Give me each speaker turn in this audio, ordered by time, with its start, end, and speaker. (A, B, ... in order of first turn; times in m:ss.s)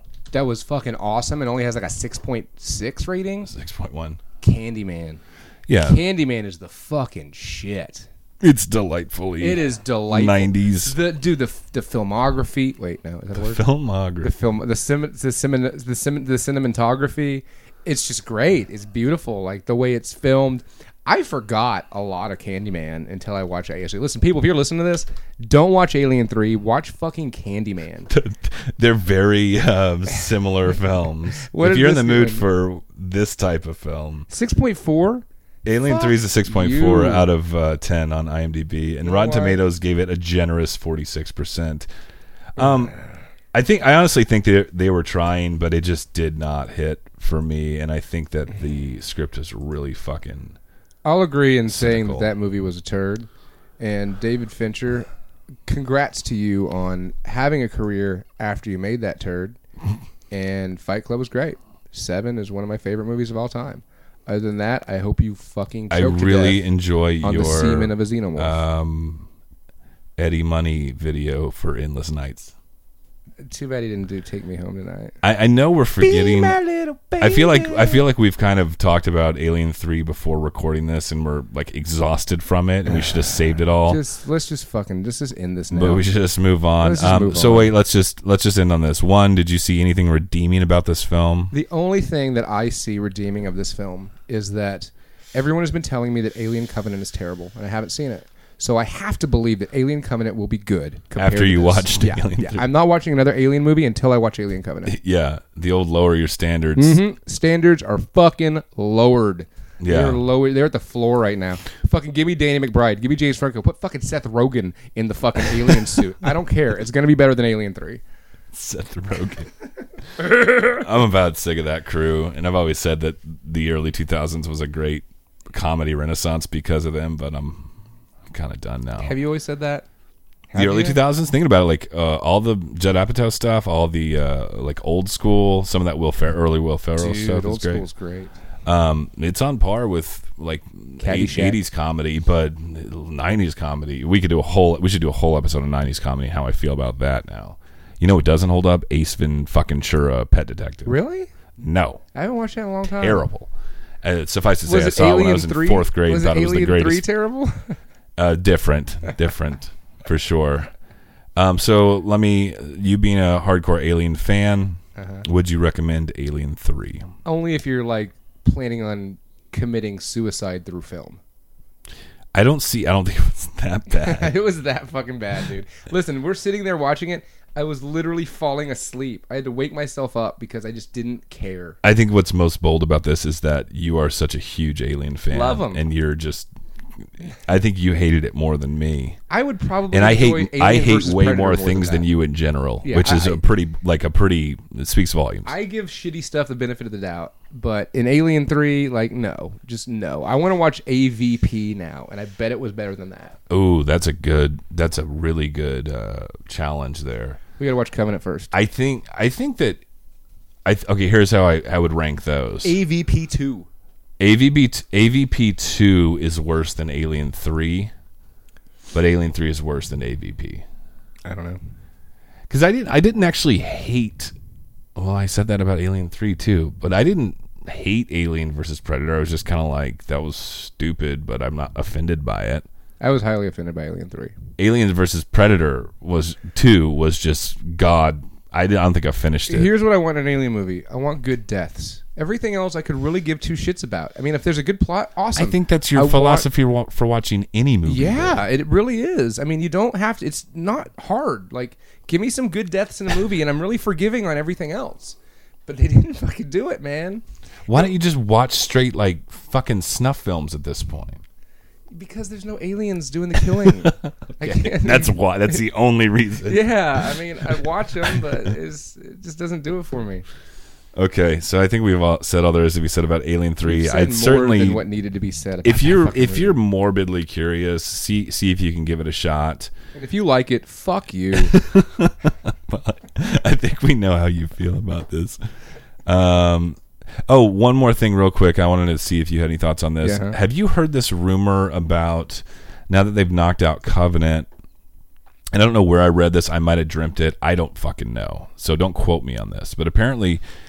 0:00.3-0:03.5 A
0:03.5-0:04.2 B
0:04.4-0:05.2 A
0:05.7-0:06.0 B
0:05.8-0:08.1 A
0:08.4-0:11.0 B
0:09.4-0:13.6 A
0:13.4-0:14.3 B
0:14.2-0:28.1 A
0:28.1-0:34.3 B
0:31.4-0:32.4 A
0:34.3-0:35.2 A
0:35.6-0:41.9 B
0:35.8-0:37.3 A
0:39.0-0:39.6 A
0:42.6-0:43.0 B
0:43.5-0:50.6 B
0:51.0-0:53.3 A
0:51.7-0:52.3 B
0:53.8-0:55.1 A
0:55.7-0:59.6 A
1:00.3-1:06.6 A
1:05.9-1:09.3 B
1:07.2-1:08.6 A
1:10.2-1:12.5 B
1:13.4-1:15.2 A
1:15.2-1:16.6 B
1:16.0-1:18.0 A
1:17.2-1:24.0 B
1:23.9-1:26.1 A
1:25.7-1:31.5 B
1:26.8-1:27.7 A
1:31.5-1:45.0 A
1:41.2-1:42.7 B
1:44.9-1:47.0 B
1:46.8-1:58.0 A
1:49.8-1:50.2 B
1:55.5-1:56.0 B
1:58.5-1:59.5 B
2:00.2-2:07.7 B
2:00.4-2:00.7 A
2:08.3-2:09.2 B
2:09.0-2:09.9 A
2:10.5-2:11.0 A
2:10.6-2:17.9 B
2:17.0-2:18.3 A
2:18.7-2:31.0 B
2:21.0-2:21.6 A
2:30.9-2:31.3 A
2:31.6-2:32.0 B
2:32.1-2:33.3 A
2:33.0-2:33.5 B
2:34.0-2:37.1 B
2:34.7-2:37.8 A
2:38.2-2:40.7 B
2:41.4-2:47.1 B
2:45.0-2:45.3 A
2:47.2-2:51.2 A
2:52.3-2:54.3 B
2:53.9-3:01.8 A
3:01.8-3:06.5 B
3:05.3-3:05.8 A
3:07.2-3:09.2 B
3:09.3-3:12.1 A
3:09.9-3:15.5 B
3:12.8-3:13.4 A
3:15.4-3:23.4 A
3:23.5-3:27.4 B
3:27.6-3:28.5 A
3:28.5-3:29.8 B
3:30.6-3:32.8 B
3:32.6-3:33.7 A
3:34.2-3:37.9 B
3:38.9-3:40.6 B
3:41.3-3:41.6 A
3:42.5-3:44.3 B
3:45.0-3:52.6 B
3:53.0-3:54.3 A
3:54.6-3:59.7 B
3:59.5-4:06.5 A
4:05.4-4:08.4 B
4:07.9-4:17.2 A
4:17.7-4:21.2 B
4:21.9-4:25.2 A
4:23.5-4:28.2 B
4:26.4-4:30.2 A
4:31.0-4:34.8 B
4:33.6-4:36.6 A
4:35.6-4:39.7 B
4:40.0-4:41.6 A
4:41.3-4:45.4 B
4:46.1-4:54.5 B
4:50.0-4:50.4 A
4:55.5-5:00.4 B